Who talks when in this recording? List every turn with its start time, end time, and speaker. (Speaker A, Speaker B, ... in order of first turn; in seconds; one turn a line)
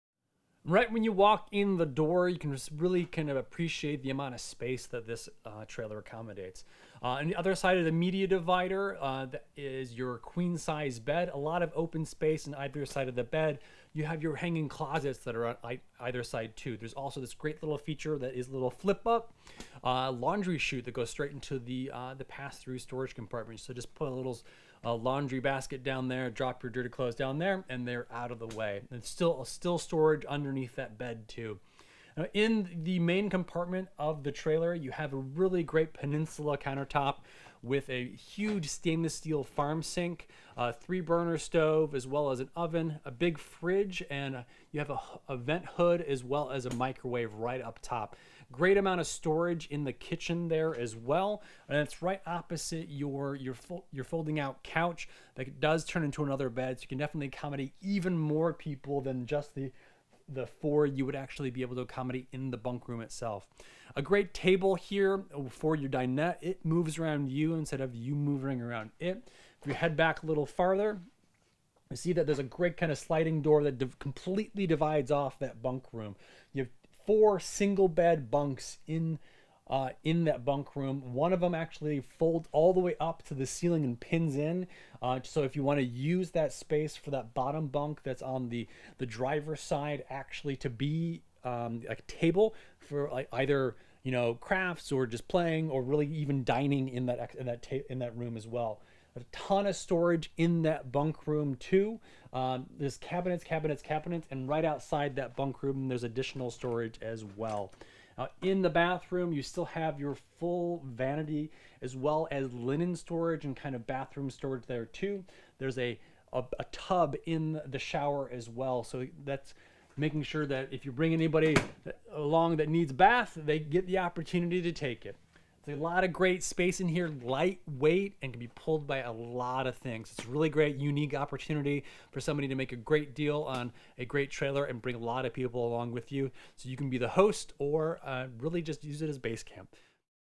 Speaker A: 0.7-31.6
Speaker A: 32.2-59.7
Speaker A: 60.3-71.0
Speaker A: 71.9-139.7